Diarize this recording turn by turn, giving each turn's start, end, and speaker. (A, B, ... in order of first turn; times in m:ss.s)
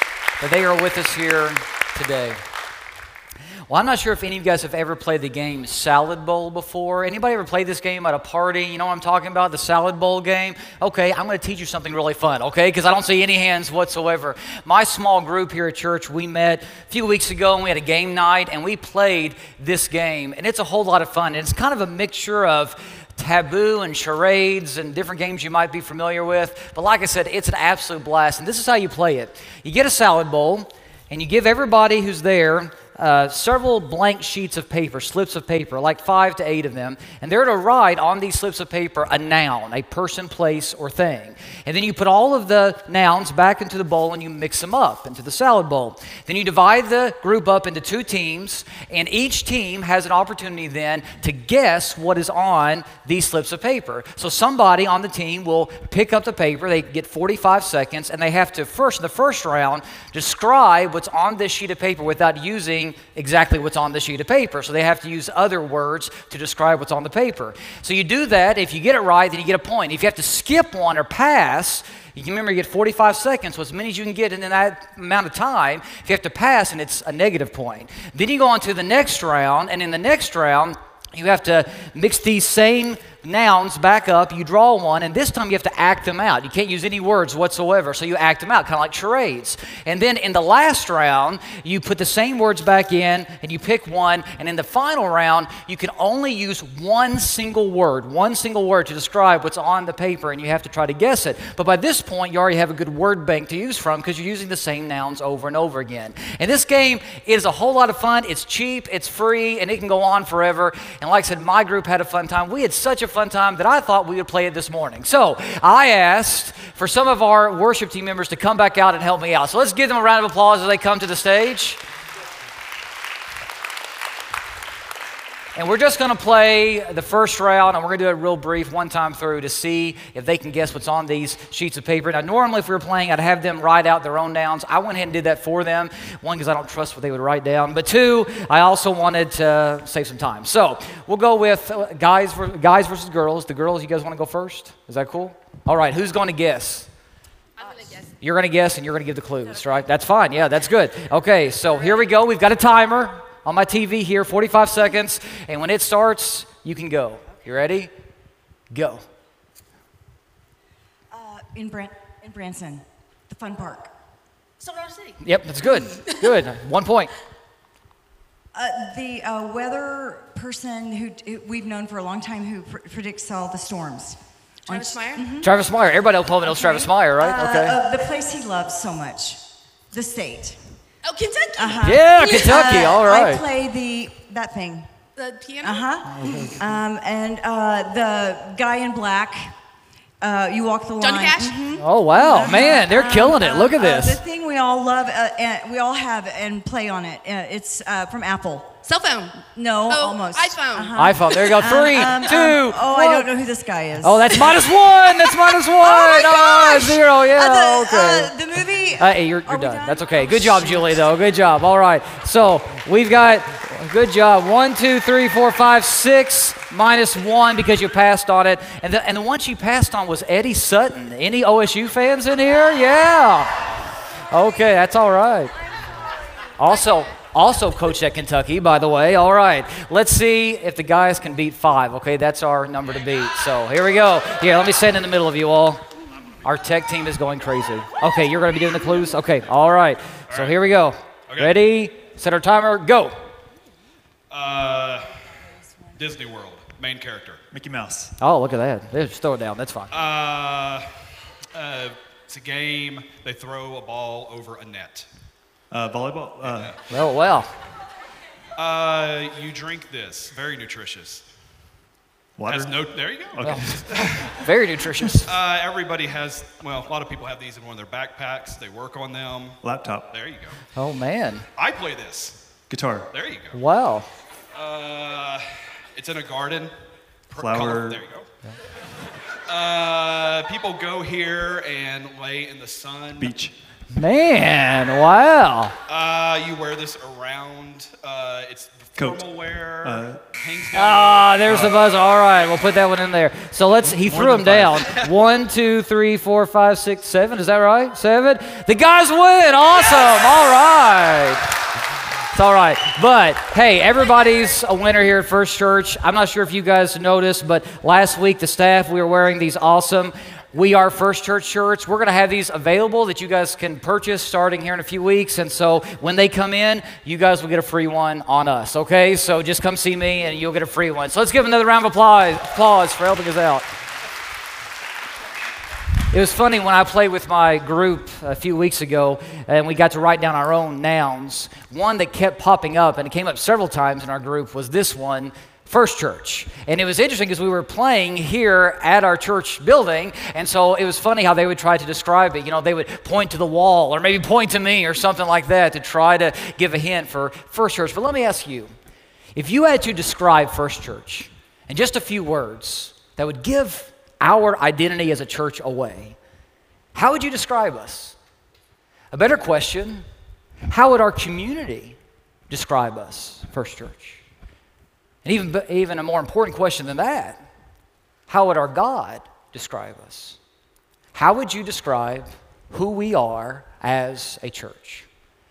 0:00.4-0:02.4 A
0:03.7-2:01.8 A
2:05.5-2:26.9 A
2:27.6-2:28.1 B
2:28.2-2:37.9 A
2:38.7-2:39.0 A
2:41.1-2:43.9 C
2:44.6-2:45.2 B
2:45.2-2:47.1 A
2:48.5-2:55.5 C
2:54.6-2:55.3 B
2:55.4-2:57.8 A
2:56.4-3:00.6 C
3:01.0-3:02.8 B
3:01.6-3:04.9 C
3:01.8-3:03.4 A
3:05.2-3:05.9 B
3:05.6-3:09.5 C
3:06.0-3:06.8 A
3:10.2-3:18.8 C
3:11.0-3:11.8 B
3:11.8-3:14.2 A
3:18.8-3:21.6 B
3:19.4-3:31.1 C
3:21.0-3:23.3 A
3:24.0-3:28.3 A
3:29.0-3:43.8 A
3:44.3-3:45.5 A
3:46.6-3:55.8 A
3:56.4-4:03.1 A
4:00.3-4:00.6 D
4:01.3-4:01.5 D
4:04.3-4:05.1 D
4:05.9-4:07.4 D
4:07.5-4:08.1 E
4:08.2-4:10.0 A
4:09.9-4:10.9 D
4:11.5-4:15.1 D
4:15.7-4:16.8 E
4:16.4-4:16.8 D
4:16.9-4:17.5 A
4:18.6-4:21.2 D
4:22.4-4:24.3 E
4:22.5-4:24.3 D
4:23.4-4:25.3 A
4:25.2-4:30.6 D
4:29.6-4:30.1 E
4:30.8-4:31.4 A
4:31.6-4:32.4 D
4:32.7-4:33.1 E
4:33.1-4:33.6 D
4:33.5-4:34.1 A
4:34.5-4:36.7 D
4:37.3-4:38.3 D
4:37.4-4:38.0 E
4:39.4-4:43.4 D
4:43.2-4:43.5 E
4:43.9-4:45.8 A
4:45.9-4:52.6 D
4:49.0-4:49.2 E
4:49.8-4:50.2 E
4:50.7-5:01.6 A
4:54.1-4:54.9 E
4:54.2-4:55.1 D
5:02.3-5:23.6 A
5:26.1-5:48.7 A
5:49.3-5:56.2 A
5:56.9-5:58.2 A
5:59.1-6:00.0 A
6:00.7-6:02.0 A
6:02.5-6:04.2 A
6:05.2-6:07.4 A
6:08.3-6:10.4 A
6:11.1-6:15.1 A